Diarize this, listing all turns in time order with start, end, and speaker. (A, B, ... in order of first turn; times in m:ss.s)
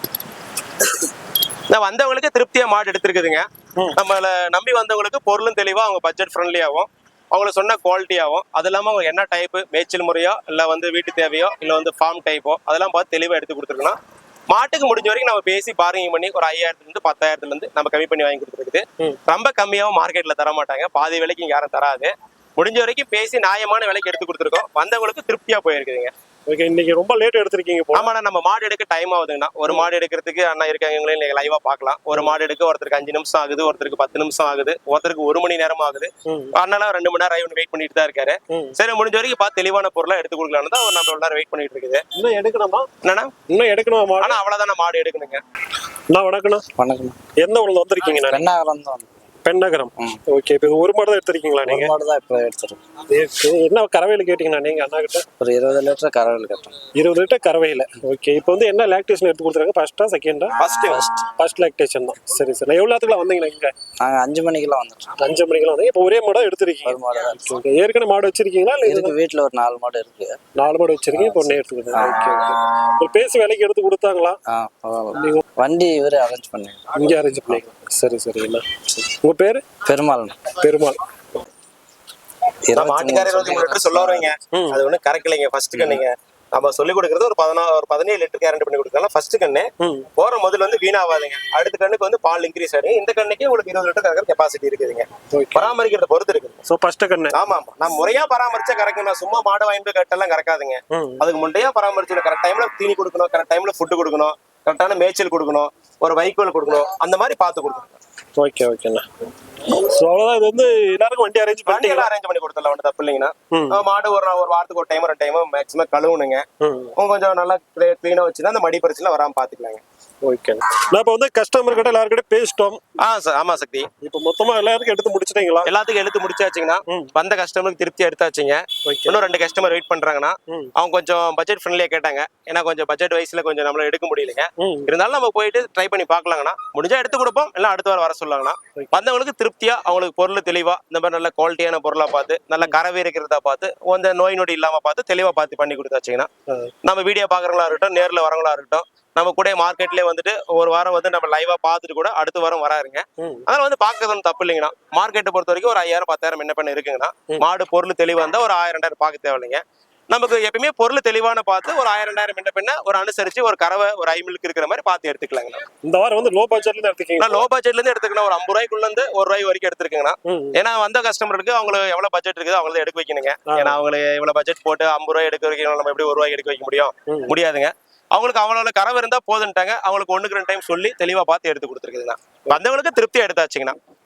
0:01.7-0:14.0 A
0:14.5-0:26.1 A
0:26.5-0:28.1 B
0:27.9-0:42.0 A
0:32.1-0:32.4 B
0:36.3-0:36.6 B
0:42.2-0:42.9 B
0:43.0-0:43.3 A
0:43.5-0:44.4 B
0:44.2-0:45.4 A
0:46.1-0:46.7 B
0:46.8-0:47.2 C
0:47.4-0:48.5 B
0:48.0-0:49.1 C
0:49.4-0:51.9 B
0:51.6-0:52.8 C
0:53.1-0:55.3 B
0:55.4-0:56.8 C
0:56.9-1:00.6 B
1:00.6-1:01.0 A
1:00.9-1:01.3 C
1:01.4-1:03.7 B
1:04.0-1:05.2 C
1:05.2-1:09.2 B
1:06.8-1:07.6 C
1:08.8-1:10.4 C
1:10.6-1:14.4 B
1:11.2-1:12.5 C
1:14.5-1:17.6 C
1:16.9-1:18.7 B
1:19.2-1:19.7 B
1:19.8-1:20.5 C
1:20.5-1:21.0 B
1:22.7-1:24.3 C
1:22.7-1:36.6 A
1:24.5-1:24.8 B
1:25.7-1:26.0 C
1:29.8-1:30.1 B
1:35.3-1:35.7 B
1:36.7-1:37.4 B
1:37.3-1:48.0 A
1:40.9-1:41.2 B
1:48.4-1:49.1 B
1:49.7-1:52.1 B
1:51.7-1:56.4 A
1:53.5-1:53.8 B
1:56.6-1:56.9 B
1:57.0-1:59.8 A
2:00.2-2:02.8 B
2:03.0-2:03.9 A
2:04.0-2:05.7 B
2:05.7-2:26.3 A
2:08.8-2:09.3 B
2:14.6-2:14.9 B
2:26.8-2:45.6 A
2:33.2-2:33.4 B
2:45.8-2:47.5 B
2:47.2-3:03.8 A
2:50.2-2:50.6 B
2:53.5-2:53.8 B
2:57.1-2:57.4 B